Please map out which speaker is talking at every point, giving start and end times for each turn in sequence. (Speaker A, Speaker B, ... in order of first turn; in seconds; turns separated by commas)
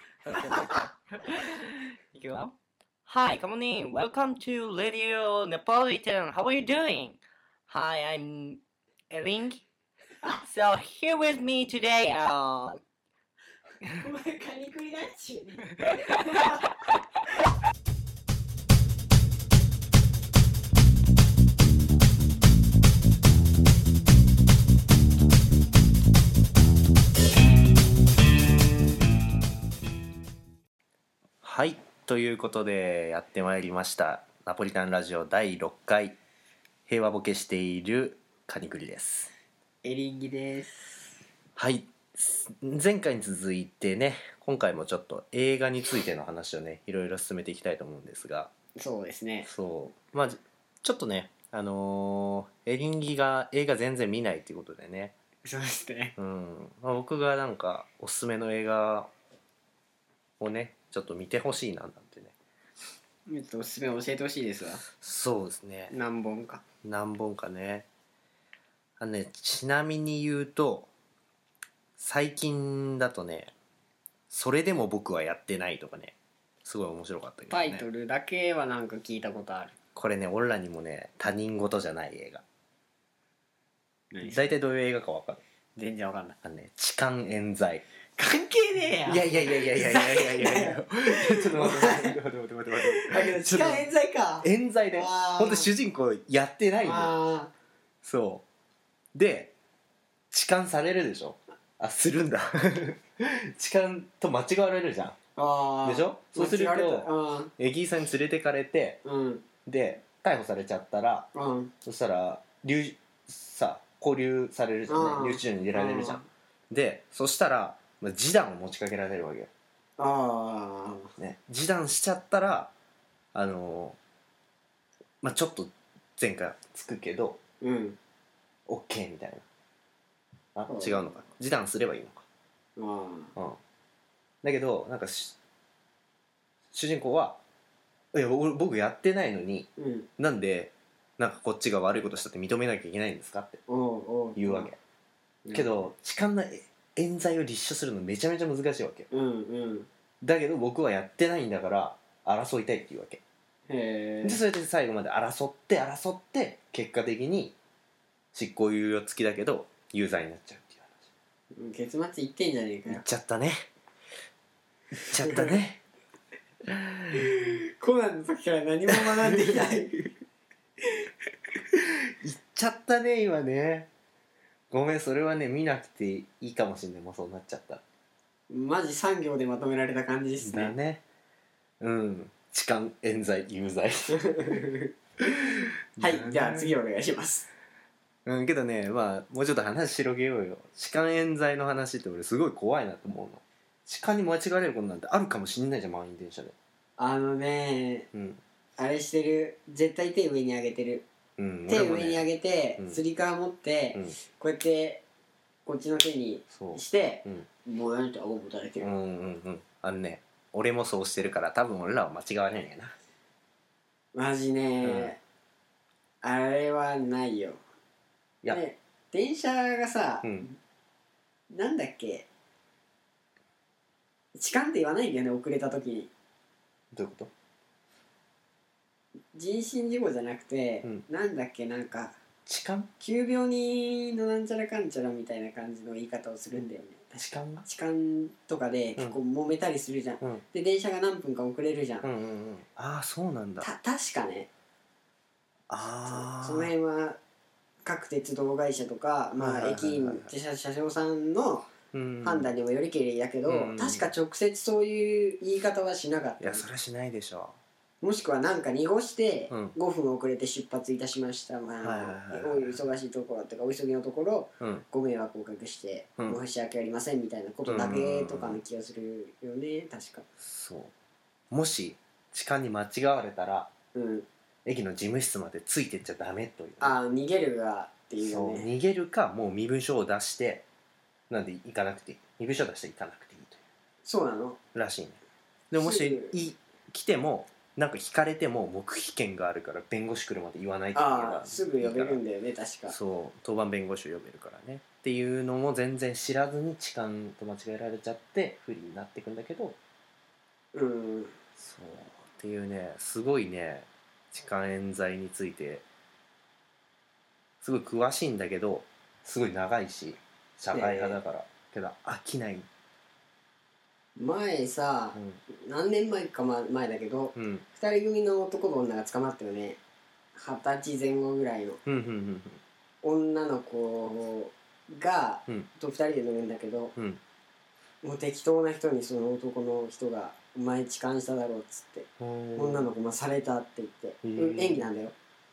Speaker A: 0.2-2.5, Speaker A: 3.1-9.6, Speaker A: 10.3-12.8, Speaker B: 14.0-15.7, Speaker A: 16.0-16.4, Speaker C: 31.4-36.2, Speaker C: 36.9-39.3, Speaker B: 39.8-41.0, Speaker C: 41.6-48.5, Speaker B: 48.8-49.5, Speaker C: 49.5-55.1, Speaker B: 55.5-56.1, Speaker C: 56.2-59.1, Speaker C: 60.4-62.3, Speaker B: 63.3-64.8, Speaker C: 65.0-65.9, Speaker B: 65.9-66.6, Speaker C: 66.8-67.9, Speaker C: 69.0-70.9, Speaker C: 72.0-73.5, Speaker C: 74.3-77.8, Speaker B: 77.5-79.8, Speaker C: 80.0-82.4, Speaker B: 84.1-84.5, Speaker C: 84.2-85.4, Speaker B: 85.8-86.4, Speaker C: 86.4-87.8, Speaker B: 88.2-92.2, Speaker C: 89.1-93.9, Speaker B: 92.8-95.7, Speaker C: 94.4-97.1, Speaker B: 96.8-97.5, Speaker C: 98.0-98.4, Speaker C: 99.1-99.5, Speaker C: 100.3-105.2, Speaker B: 105.4-107.5, Speaker C: 105.8-109.0, Speaker B: 109.0-109.4, Speaker C: 109.7-111.3, Speaker B: 111.3-111.7, Speaker C: 111.8-119.5, Speaker B: 114.9-116.3, Speaker B: 120.0-121.1, Speaker C: 121.2-122.7, Speaker C: 123.3-124.0, Speaker C: 125.2-127.4, Speaker B: 127.6-128.0, Speaker C: 128.7-129.4, Speaker C: 130.6-132.2, Speaker B: 130.7-131.2, Speaker B: 132.8-133.3, Speaker C: 134.4-135.4, Speaker C: 136.7-137.4, Speaker C: 138.1-143.6, Speaker B: 139.8-140.1, Speaker B: 143.7-144.7, Speaker C: 144.4-144.8, Speaker B: 145.4-145.9, Speaker C: 145.5-149.1, Speaker B: 149.1-149.9, Speaker C: 150.2-153.2, Speaker B: 153.7-154.4, Speaker C: 154.2-157.6, Speaker C: 158.3-161.1, Speaker B: 161.5-163.0, Speaker C: 162.9-163.7, Speaker C: 164.9-165.8, Speaker B: 165.2-165.5, Speaker C: 166.7-167.4, Speaker B: 167.2-170.1, Speaker C: 168.9-169.7, Speaker C: 171.7-173.9, Speaker C: 174.7-177.8, Speaker B: 178.5-180.8, Speaker C: 180.4-181.0, Speaker C: 181.8-184.6, Speaker B: 184.1-184.9, Speaker C: 185.5-186.7, Speaker B: 186.0-187.5, Speaker C: 188.2-196.6, Speaker B: 197.0-198.1, Speaker C: 198.1-198.4, Speaker B: 198.8-201.1, Speaker C: 201.4-202.2, Speaker B: 201.7-205.0, Speaker B: 205.7-208.9, Speaker C: 206.5-207.5, Speaker C: 208.8-213.0, Speaker B: 214.1-215.2, Speaker C: 214.8-215.1, Speaker B: 216.2-217.6, Speaker B: 218.5-220.6, Speaker C: 220.2-220.5, Speaker B: 221.5-222.3, Speaker B: 224.3-226.1, Speaker C: 226.9-227.3, Speaker B: 229.3-232.2, Speaker C: 232.5-232.9, Speaker B: 233.0-242.1, Speaker C: 237.2-237.7, Speaker C: 242.0-243.7, Speaker B: 243.6-244.5, Speaker C: 245.7-246.7, Speaker B: 246.1-247.2, Speaker B: 247.8-251.7, Speaker C: 249.4-250.3, Speaker C: 251.9-252.5, Speaker B: 252.2-256.7, Speaker C: 253.5-254.1, Speaker C: 256.4-257.6, Speaker B: 258.0-270.3, Speaker C: 259.5-259.8, Speaker C: 261.8-262.8, Speaker C: 264.6-264.9, Speaker C: 267.6-268.6, Speaker C: 270.4-270.9, Speaker C: 271.5-273.7, Speaker B: 273.9-274.3, Speaker C: 274.6-277.0, Speaker B: 276.8-278.7, Speaker C: 278.2-280.6, Speaker C: 281.3-283.6, Speaker B: 284.1-284.6, Speaker C: 284.7-285.2, Speaker C: 285.7-292.2, Speaker B: 285.8-286.4, Speaker B: 290.9-293.0, Speaker C: 292.9-299.8, Speaker B: 300.7-301.4, Speaker C: 301.6-305.9, Speaker C: 307.6-312.7, Speaker B: 310.7-311.2, Speaker B: 314.2-319.8, Speaker C: 315.1-315.4, Speaker C: 317.4-317.6, Speaker B: 320.4-321.8, Speaker C: 321.9-322.6, Speaker B: 323.0-326.9, Speaker B: 328.0-335.1, Speaker C: 332.2-332.9, Speaker C: 334.2-334.9